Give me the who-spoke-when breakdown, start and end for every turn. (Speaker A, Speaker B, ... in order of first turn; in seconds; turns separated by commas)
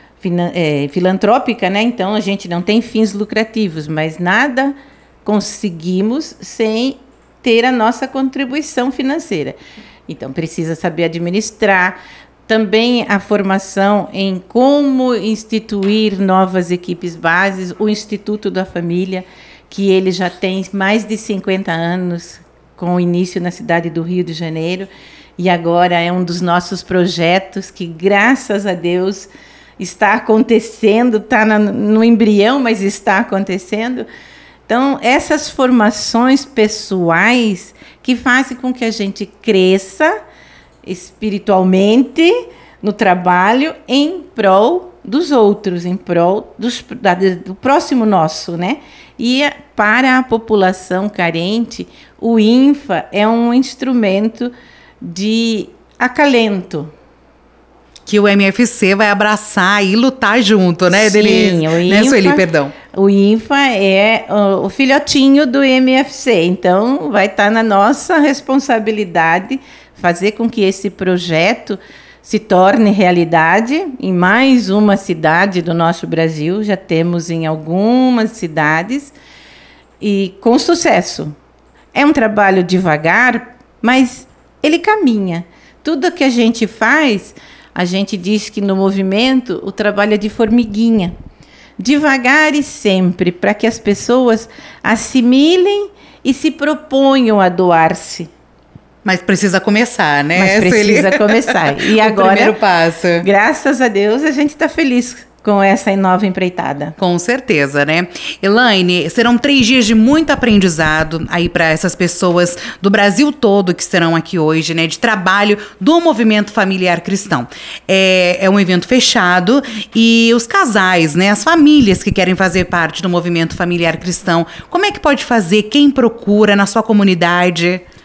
Speaker A: 0.2-4.7, Speaker A: 5.2-9.6, Speaker A: 10.1-34.1, Speaker A: 34.7-40.1, Speaker A: 40.8-56.9, Speaker B: 58.1-62.7, Speaker A: 60.9-79.2, Speaker A: 80.0-81.3, Speaker A: 81.9-91.1, Speaker A: 91.8-98.3, Speaker B: 99.0-103.2, Speaker A: 100.3-102.5, Speaker A: 103.2-107.0, Speaker B: 107.0-127.8